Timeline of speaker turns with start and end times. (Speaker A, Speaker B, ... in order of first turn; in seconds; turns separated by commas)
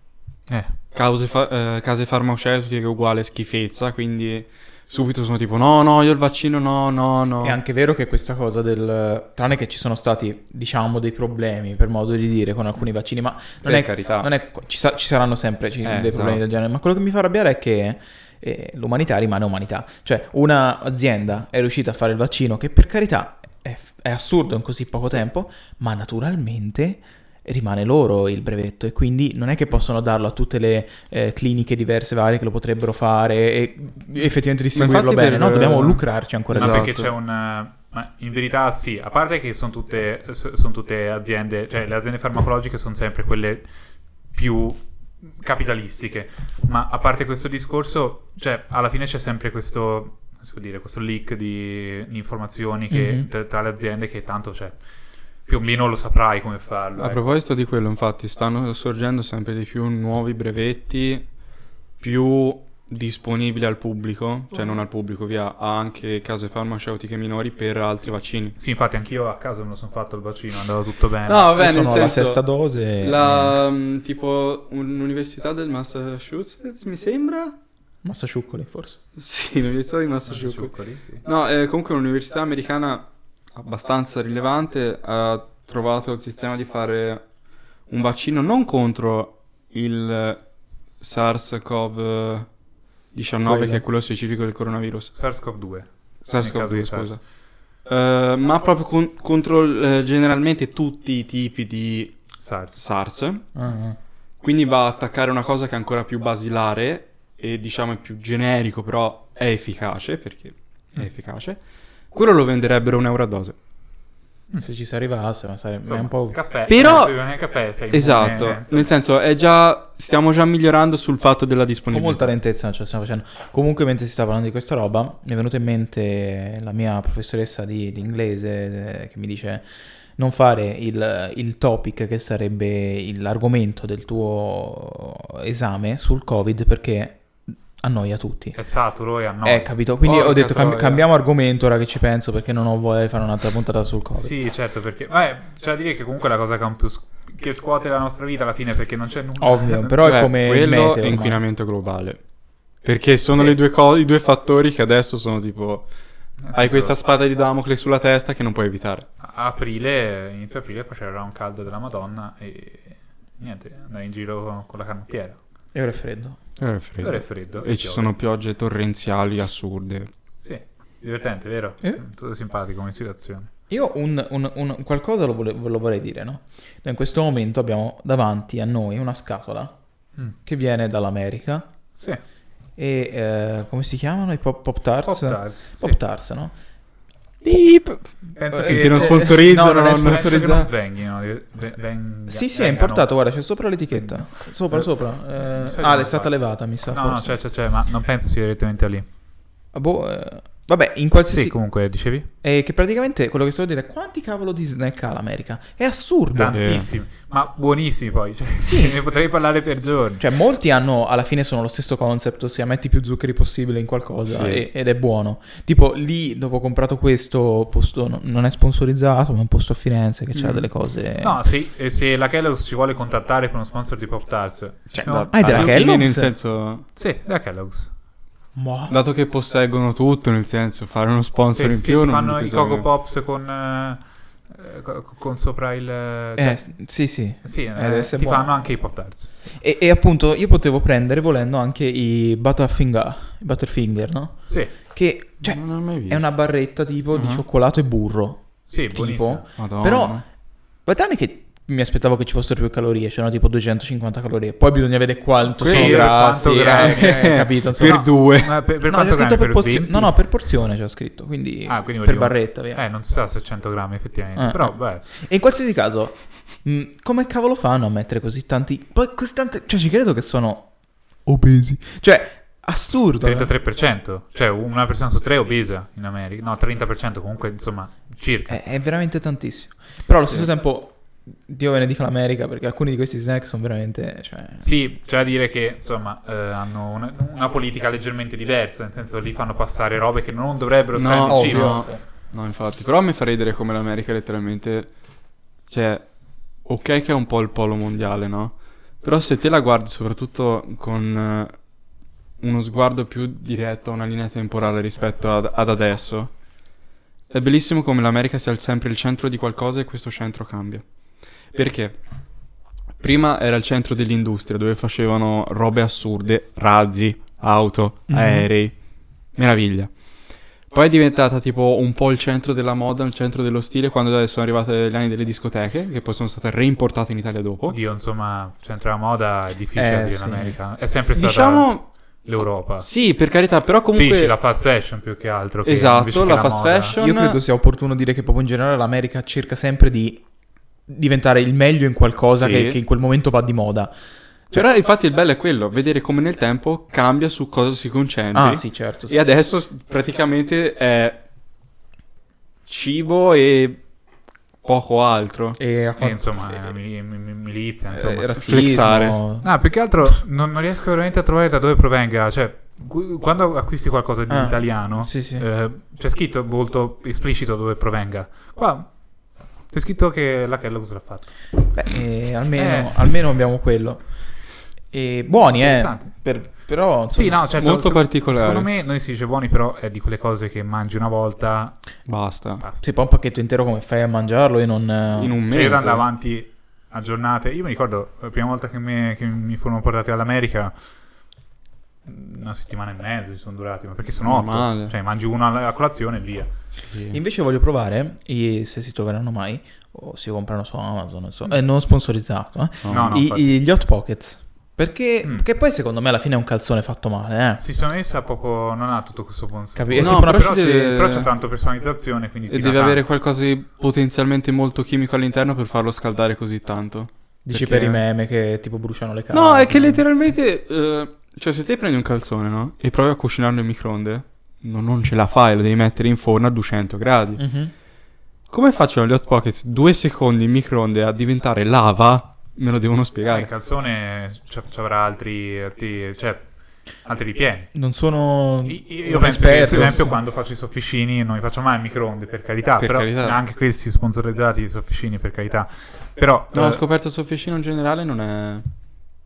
Speaker A: 0.5-0.7, Speaker B: 0.9-7.6, Speaker C: 7.4-36.9, Speaker B: 13.6-14.3, Speaker B: 15.8-16.4, Speaker B: 34.8-37.1, Speaker A: 36.5-43.7, Speaker A: 44.3-44.8, Speaker A: 45.4-54.8, Speaker C: 52.9-53.3, Speaker A: 55.5-57.2, Speaker B: 57.0-61.3, Speaker B: 62.0-68.6, Speaker A: 68.6-71.6, Speaker B: 71.3-72.4, Speaker C: 71.5-73.5, Speaker B: 73.0-77.5, Speaker C: 78.0-79.0, Speaker B: 79.2-87.2, Speaker A: 80.3-81.2, Speaker B: 87.9-90.4, Speaker B: 91.0-92.5, Speaker B: 93.1-95.1, Speaker C: 93.5-93.8, Speaker A: 95.1-97.2, Speaker B: 96.2-97.2, Speaker B: 97.9-102.2, Speaker A: 102.4-102.8, Speaker B: 102.8-103.5, Speaker C: 103.5-104.0, Speaker B: 104.4-111.6, Speaker B: 112.1-113.6, Speaker C: 114.6-117.1, Speaker A: 115.8-118.9, Speaker B: 116.7-117.2, Speaker B: 117.9-122.3, Speaker C: 121.9-137.2, Speaker C: 137.8-138.6, Speaker A: 138.6-139.7, Speaker C: 139.4-144.3, Speaker B: 140.0-141.0, Speaker A: 144.2-150.2, Speaker C: 149.4-151.4, Speaker B: 150.0-152.2, Speaker B: 152.8-155.9, Speaker A: 156.4-156.9, Speaker B: 156.5-159.1, Speaker A: 159.2-165.4, Speaker C: 165.7-166.4, Speaker B: 166.6-170.1, Speaker A: 167.0-168.1, Speaker A: 170.4-173.5, Speaker C: 173.7-179.8, Speaker C: 180.4-181.7, Speaker C: 182.8-186.5, Speaker A: 185.1-186.0, Speaker B: 187.4-190.7, Speaker A: 188.3-193.1, Speaker C: 188.5-190.7, Speaker C: 192.3-197.4, Speaker A: 193.9-196.3, Speaker A: 196.9-199.1, Speaker C: 199.7-201.6, Speaker A: 201.3-202.3, Speaker C: 202.4-206.6, Speaker A: 206.3-210.2, Speaker B: 206.4-206.9, Speaker C: 208.6-209.0, Speaker C: 210.2-221.4, Speaker B: 214.3-214.7, Speaker B: 220.4-220.7, Speaker A: 221.2-225.8, Speaker C: 224.9-226.3, Speaker B: 225.0-226.9, Speaker A: 227.0-227.9, Speaker C: 228.6-229.0, Speaker B: 228.9-232.9, Speaker A: 231.6-236.7, Speaker C: 236.4-238.6, Speaker A: 237.4-239.3, Speaker C: 239.5-250.2, Speaker A: 244.5-244.7, Speaker B: 245.4-246.3, Speaker B: 247.1-247.4, Speaker A: 248.7-249.5, Speaker B: 249.6-250.2, Speaker C: 250.8-258.1, Speaker A: 255.6-260.1, Speaker B: 255.6-256.2, Speaker B: 256.7-258.6, Speaker C: 258.9-262.8, Speaker A: 261.7-265.1, Speaker C: 264.4-270.7, Speaker C: 271.2-273.5, Speaker A: 273.2-278.6, Speaker C: 278.5-284.7, Speaker A: 284.6-292.0, Speaker B: 290.9-294.9, Speaker C: 291.3-291.9, Speaker B: 295.7-296.1, Speaker B: 296.7-301.5, Speaker B: 302.4-306.3, Speaker B: 307.3-310.9, Speaker B: 311.5-312.0, Speaker B: 313.0-318.8, Speaker C: 318.1-318.5, Speaker B: 319.4-319.9, Speaker B: 320.7-327.8, Speaker A: 327.7-331.7, Speaker C: 329.8-330.6, Speaker B: 331.1-331.9, Speaker A: 332.2-332.9, Speaker B: 332.8-334.4, Speaker A: 333.9-337.0, Speaker B: 335.6-337.4, Speaker C: 337.0-340.2, Speaker C: 340.9-343.9, Speaker B: 342.3-342.8, Speaker B: 344.5-351.2, Speaker C: 348.3-349.2, Speaker B: 352.7-353.8, Speaker B: 354.6-355.6, Speaker C: 355.6-356.7, Speaker A: 356.0-358.4, Speaker C: 357.9-359.5, Speaker B: 358.4-359.2, Speaker A: 359.4-368.9, Speaker C: 364.3-365.4, Speaker A: 369.7-371.3, Speaker C: 371.7-374.0, Speaker A: 372.6-373.1, Speaker C: 374.9-377.4, Speaker A: 375.6-376.1, Speaker A: 377.1-381.8, Speaker B: 377.6-378.7, Speaker B: 382.1-382.6, Speaker C: 382.8-385.4, Speaker B: 385.2-386.0, Speaker A: 385.5-390.7, Speaker A: 392.1-396.5, Speaker B: 394.2-394.9, Speaker B: 396.8-397.2, Speaker C: 397.1-407.6, Speaker B: 402.8-403.2, Speaker A: 402.9-403.4, Speaker A: 407.6-413.0, Speaker C: 409.8-410.9, Speaker B: 410.0-411.3, Speaker B: 412.5-418.0, Speaker C: 417.4-420.0, Speaker B: 419.3-427.4, Speaker C: 427.4-427.7, Speaker B: 428.5-433.5, Speaker A: 433.3-436.5, Speaker A: 437.0-437.7, Speaker C: 437.7-440.2, Speaker A: 438.7-446.8, Speaker B: 439.7-440.0, Speaker B: 442.8-443.4, Speaker B: 446.5-448.7